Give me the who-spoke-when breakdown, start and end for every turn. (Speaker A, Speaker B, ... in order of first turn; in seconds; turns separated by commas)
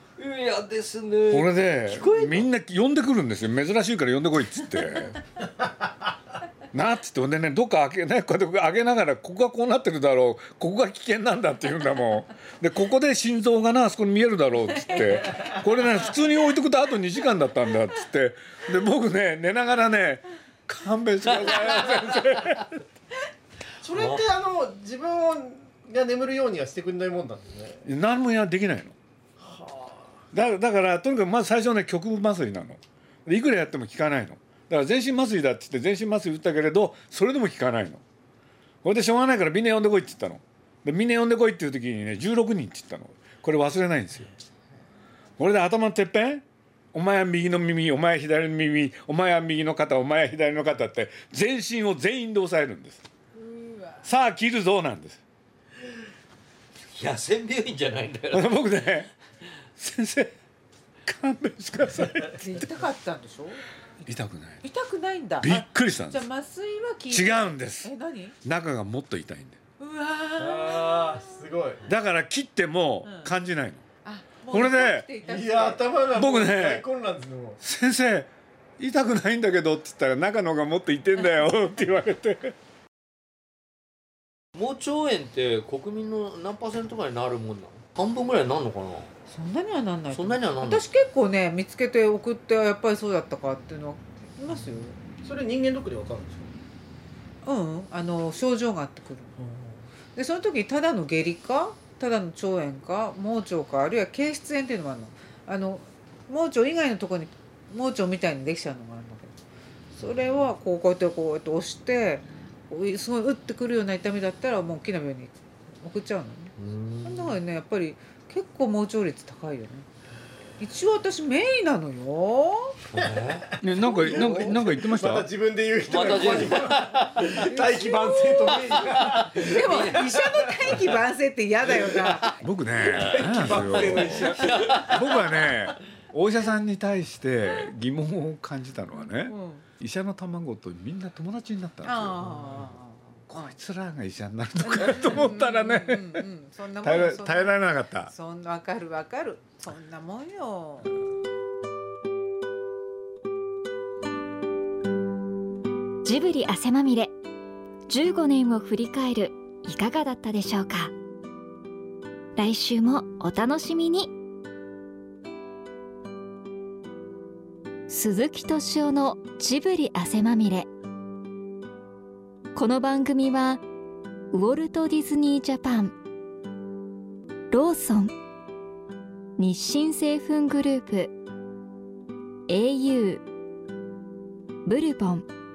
Speaker A: 0.2-2.5, Speaker B: 1.3-5.2, Speaker B: 6.7-22.8, Speaker C: 14.9-15.3, Speaker A: 21.4-22.4, Speaker D: 23.8-27.9, Speaker A: 23.9-24.2, Speaker B: 27.9-28.9, Speaker D: 29.4-30.2, Speaker B: 30.3-38.0, Speaker B: 38.8-44.3, Speaker B: 45.4-53.0, Speaker C: 53.4-54.0, Speaker B: 54.0-55.2, Speaker A: 56.9-58.6, Speaker B: 58.3-59.1, Speaker B: 59.8-60.3, Speaker B: 61.0-62.7, Speaker C: 62.4-63.6, Speaker B: 64.0-64.6, Speaker C: 64.6-68.4, Speaker B: 65.4-66.2, Speaker B: 67.1-67.9, Speaker B: 68.4-69.6, Speaker C: 69.8-71.3, Speaker D: 70.4-71.9, Speaker B: 71.9-73.8, Speaker C: 73.0-73.3, Speaker C: 74.0-75.9, Speaker B: 74.5-75.0, Speaker D: 75.2-77.6, Speaker B: 76.2-76.9, Speaker B: 77.6-82.5, Speaker A: 84.6-89.1, Speaker C: 89.3-95.0, Speaker A: 90.1-90.8, Speaker D: 95.2-96.5, Speaker C: 97.4-99.4, Speaker D: 99.4-99.8, Speaker C: 100.2-109.4, Speaker C: 109.9-119.9, Speaker A: 116.6-117.4, Speaker C: 120.6-122.8, Speaker A: 122.9-123.5, Speaker B: 123.6-125.3, Speaker D: 123.8-130.9, Speaker C: 123.8-124.5, Speaker A: 125.9-127.4, Speaker C: 127.3-132.4, Speaker A: 129.2-130.1, Speaker D: 131.7-132.1, Speaker B: 132.4-142.5, Speaker D: 132.9-135.1, Speaker A: 132.9-135.1, Speaker C: 139.0-139.7, Speaker C: 141.8-143.5, Speaker B: 143.3-146.2, Speaker C: 144.6-150.9, Speaker B: 146.8-148.1, Speaker E: 156.0-157.2, Speaker E: 157.9-160.9, Speaker E: 162.4-164.1, Speaker E: 167.9-170.7, Speaker E: 172.6-173.6, Speaker E: 174.3-176.0, Speaker E: 177.5-178.1, Speaker E: 179.4-181.1, Speaker E: 182.5-183.2, Speaker E: 184.7-185.3